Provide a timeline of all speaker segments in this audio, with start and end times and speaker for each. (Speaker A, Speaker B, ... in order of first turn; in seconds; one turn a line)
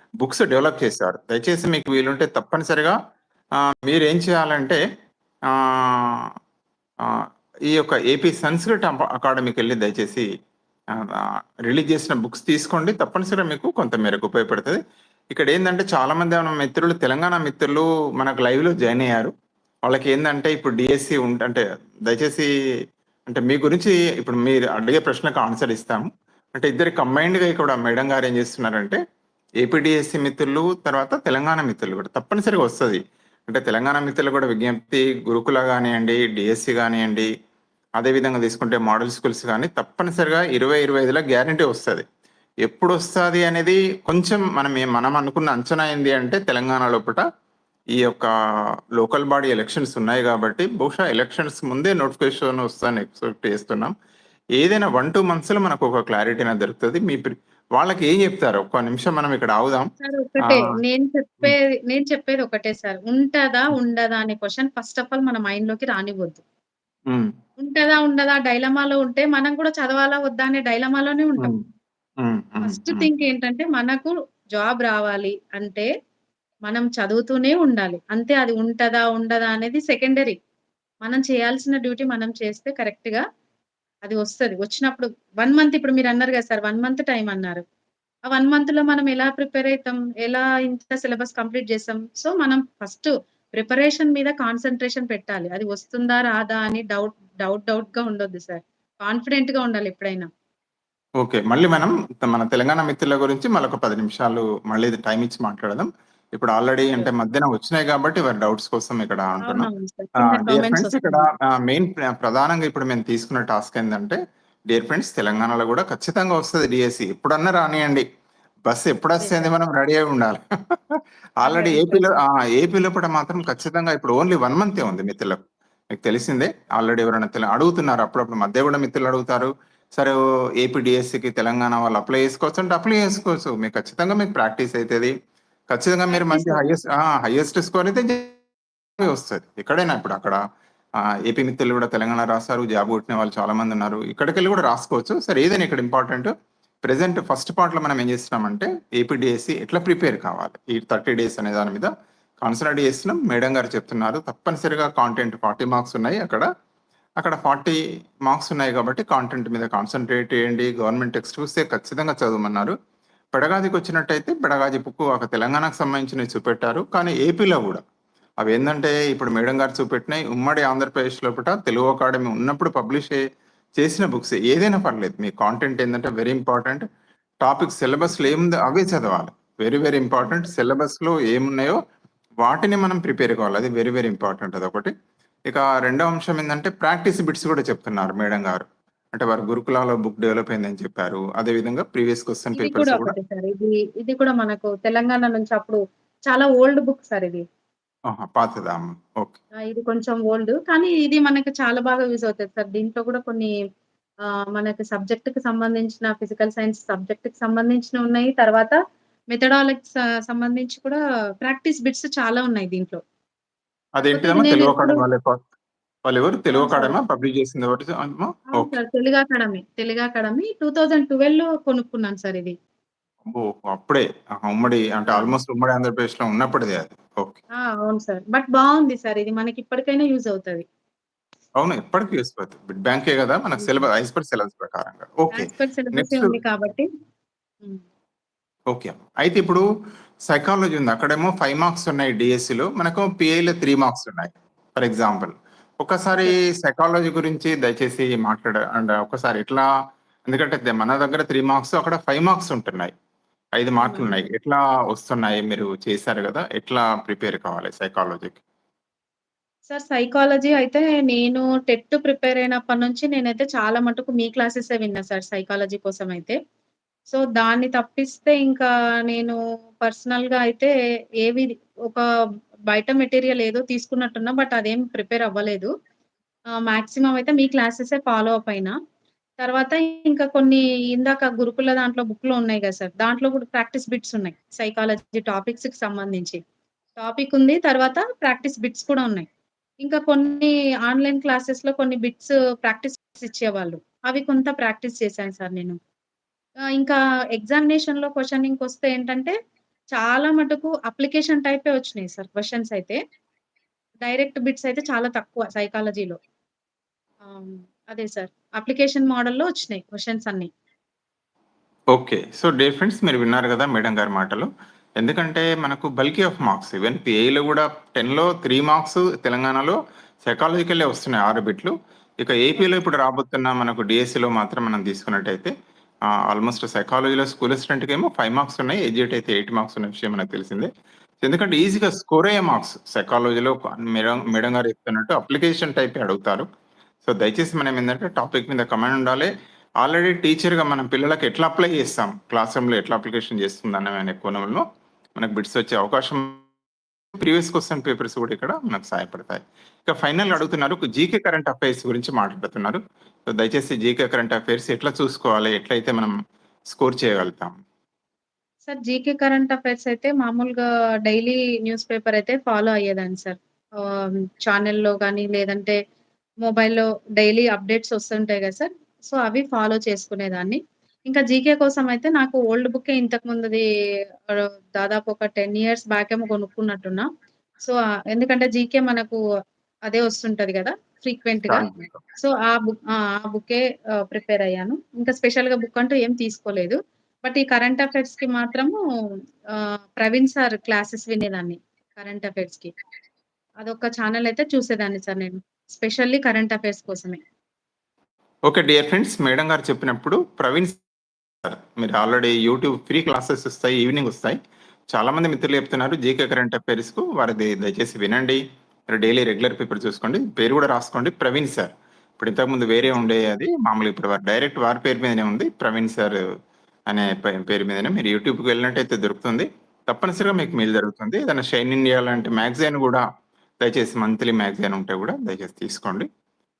Speaker A: 0.2-3.0
Speaker A: 3.8-4.8
Speaker A: 5.5-6.3
Speaker A: 7.0-10.2
Speaker A: 11.0-14.8
Speaker A: 15.3-19.3
Speaker A: 19.9-22.5
Speaker A: 23.3-29.0
Speaker A: 29.6-37.3
Speaker A: 38.0-42.0
Speaker A: 42.6-47.2
Speaker A: 48.0-48.3
Speaker A: 49.0-53.9
Speaker A: 54.6-59.9
Speaker B: 60.0-66.4
Speaker A: 60.4-60.7
Speaker B: 67.6-71.5
Speaker A: 71.4-71.6
Speaker A: 72.2-73.1
Speaker B: 72.6-75.9
Speaker B: 76.7-80.3
Speaker B: 81.0-83.2
Speaker B: 84.0-87.6
Speaker B: 88.3-100.3
Speaker A: 101.2-114.2
Speaker B: 109.4-111.3
Speaker A: 114.7-118.0
Speaker A: 118.7-125.4
Speaker B: 119.2-119.5
Speaker B: 121.4-122.2
Speaker A: 125.9-135.1
Speaker A: 135.7-138.4
Speaker B: 136.1-136.6
Speaker A: 139.0-140.4
Speaker A: 141.2-146.3
Speaker A: 146.8-151.9
Speaker A: 152.4-156.4
Speaker A: 157.2-162.7
Speaker A: 163.3-167.8
Speaker A: 168.4-173.2
Speaker A: 173.8-176.8
Speaker A: 177.4-181.8
Speaker B: 178.0-178.4
Speaker B: 180.2-180.5
Speaker A: 182.4-184.9
Speaker A: 185.5-193.1
Speaker B: 192.6-197.4
Speaker A: 198.1-199.4
Speaker B: 199.7-203.5
Speaker B: 204.2-208.8
Speaker B: 209.3-213.0
Speaker A: 214.0-215.4
Speaker B: 214.0-215.0
Speaker A: 216.0-218.7
Speaker B: 216.5-216.9
Speaker B: 218.5-222.5
Speaker A: 223.2-227.4
Speaker B: 225.1-225.3
Speaker B: 227.6-230.7
Speaker A: 231.6-236.3
Speaker B: 235.3-236.9
Speaker A: 238.7-239.6
Speaker A: 240.3-249.7
Speaker A: 250.3-252.9
Speaker A: 253.6-258.4
Speaker B: 253.8-254.1
Speaker B: 259.7-266.4
Speaker B: 267.1-270.7
Speaker B: 271.2-272.0
Speaker B: 272.7-275.7
Speaker B: 276.6-278.7
Speaker B: 279.4-286.4
Speaker B: 287.0-289.3
Speaker B: 289.8-295.8
Speaker B: 296.8-299.3
Speaker B: 299.9-303.0
Speaker B: 304.0-306.2
Speaker B: 307.2-310.5
Speaker A: 311.9-325.5
Speaker A: 326.2-330.7
Speaker A: 331.2-336.5
Speaker A: 337.0-339.3
Speaker A: 339.8-344.6
Speaker A: 345.2-346.4
Speaker A: 347.2-356.1
Speaker A: 356.7-357.5
Speaker B: 358.7-365.8
Speaker B: 366.4-373.6
Speaker B: 374.3-377.1
Speaker B: 377.6-379.2
Speaker B: 379.9-388.8
Speaker A: 381.5-382.0
Speaker B: 389.5-392.7
Speaker B: 393.6-397.2
Speaker A: 398.5-400.8
Speaker A: 401.4-404.4
Speaker A: 404.9-408.4
Speaker A: 408.9-416.2
Speaker A: 416.9-423.0
Speaker A: 423.6-426.1